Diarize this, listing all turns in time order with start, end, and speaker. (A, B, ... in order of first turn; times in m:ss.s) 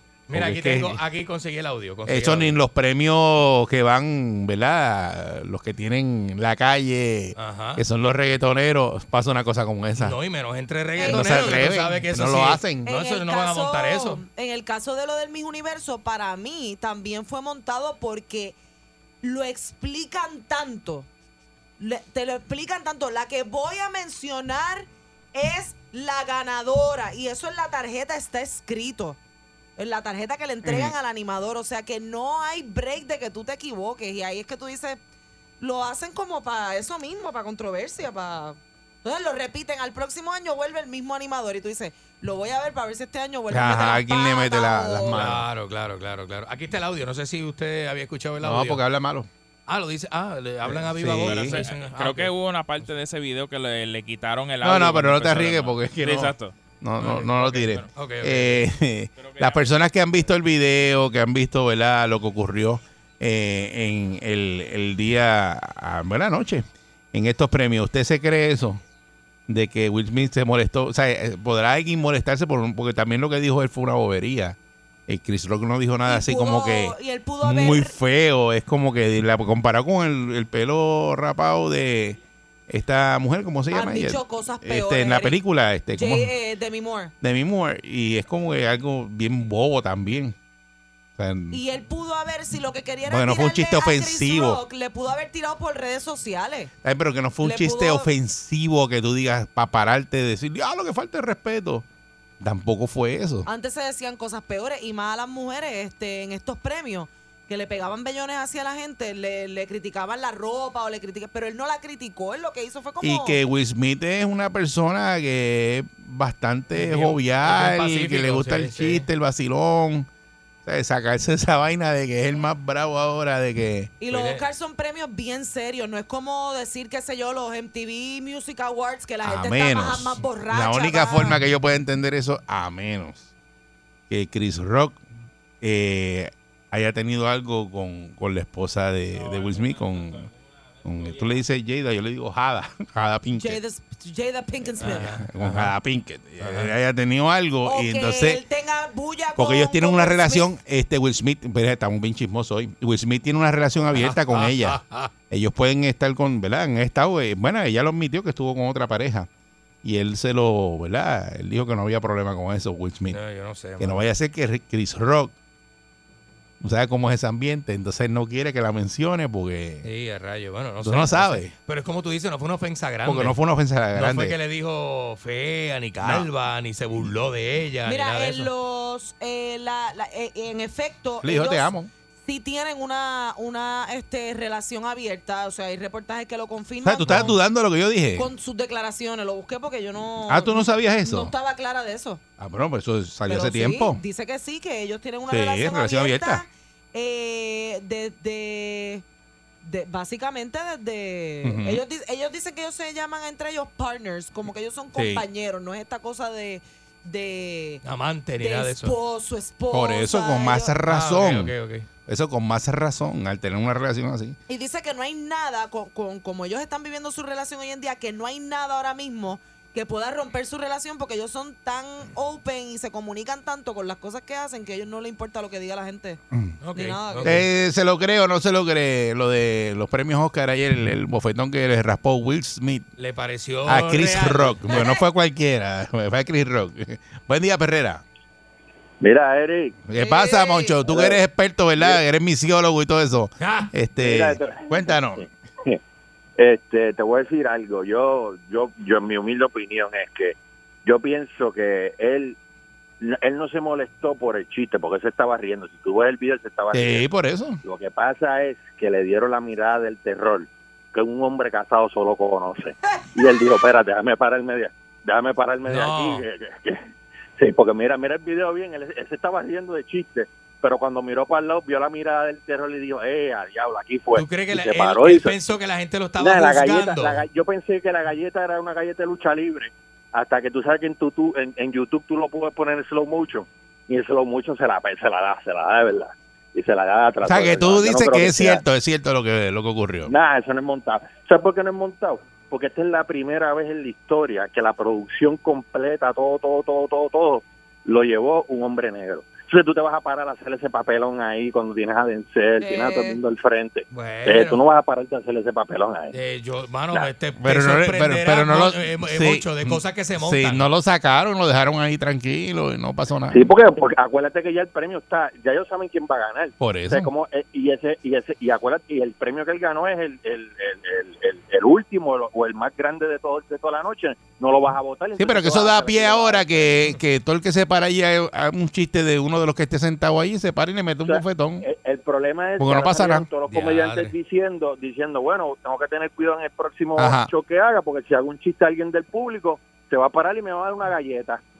0:00.3-0:02.6 A
0:00.3-0:01.0 B
0:02.1-0:10.1 B
0:07.4-0:07.8 A
0:10.0-0:14.2 A
0:11.0-0:11.6 C
0:11.0-0:12.9 B
0:12.8-0:18.6 C
0:19.2-0:21.1 C
0:21.8-0:29.2 C
0:29.8-0:35.0 C
0:30.6-0:30.9 B
0:35.6-0:45.3 C
0:43.5-0:45.4 B
0:45.1-0:48.8 A
0:48.4-0:49.3 B
0:49.7-0:52.3 A
0:50.6-0:51.6 B
0:51.2-0:57.9 D
0:54.6-1:08.8 B
0:57.0-0:57.3 A
0:57.9-0:58.6 A
0:59.2-0:59.7 D
1:09.5-1:22.2 B
1:16.0-1:17.9 C
1:22.7-1:26.3 B
1:23.7-1:25.4 C
1:25.9-1:27.1 C
1:27.2-1:30.3 B
1:31.2-1:31.6 B
1:31.5-1:36.7 C
1:33.1-1:34.6 B
1:36.8-1:41.8 B
1:37.4-1:38.1 C
1:42.4-1:43.5 B
1:43.4-1:53.4 C
1:53.0-2:00.1 B
1:56.7-1:59.1 A
2:00.6-2:03.9 B
2:04.0-2:11.4 C
2:04.1-2:04.4 A
2:09.2-2:13.3 B
2:14.1-2:15.0 B
2:15.6-2:20.3 B
2:20.8-2:23.6 B
2:23.3-2:25.1 C
2:24.8-2:25.7 A
2:25.1-2:28.4 B
2:26.4-2:26.7 A
2:27.6-2:30.5 C
2:29.4-2:34.8 B
2:33.9-2:35.1 A
2:35.3-2:39.3 B
2:39.8-2:43.2 B
2:43.1-2:44.0 A
2:43.8-2:45.3 B
2:46.6-2:49.8 B
2:49.8-2:53.4 A
2:50.8-2:51.5 B
2:53.0-2:54.4 B
2:53.9-2:58.5 A
2:57.8-3:01.7 C
3:01.2-3:01.9 B
3:02.2-3:07.4 C
3:06.8-3:08.3 B
3:08.2-3:12.2 C
3:10.3-3:11.3 B
3:12.4-3:14.0 B
3:13.3-3:19.0 C
3:15.3-3:16.4 B
3:19.6-3:27.8 C
3:21.4-3:21.8 B
3:24.9-3:25.2 B
3:27.8-3:29.0 A
3:28.4-3:30.8 C
3:29.7-3:31.5 B
3:30.8-3:31.9 A
3:32.0-3:34.4 B
3:34.5-3:46.2 C
3:46.3-3:46.6 B
3:46.6-3:47.4 A
3:46.7-3:47.4 C
3:47.2-3:52.9 B
3:53.0-3:54.6 A
3:53.7-3:58.0 B
3:54.7-3:55.0 C
3:59.0-3:59.8 E
3:59.9-4:05.2 B
4:00.0-4:00.8 C
4:00.9-4:01.2 E
4:03.4-4:03.7 A
4:04.0-4:05.8 E
4:06.4-4:12.4 E
4:13.0-4:17.1 E
4:16.7-4:17.6 B
4:17.6-4:26.8 E
4:25.6-4:26.2 A
4:27.4-4:35.4 E
4:34.1-4:37.2 A
4:36.2-4:48.6 E
4:47.2-4:50.1 B
4:50.0-5:06.2 E
5:02.6-5:03.2 C
5:03.9-5:04.6 A
5:06.1-5:10.7 A
5:07.4-5:13.5 B
5:13.3-5:26.8 E
5:16.6-5:17.1 B
5:25.2-5:31.6 B
5:31.0-5:41.4 E
5:32.6-5:33.3 B
5:33.4-5:34.1 A
5:37.0-5:37.3 B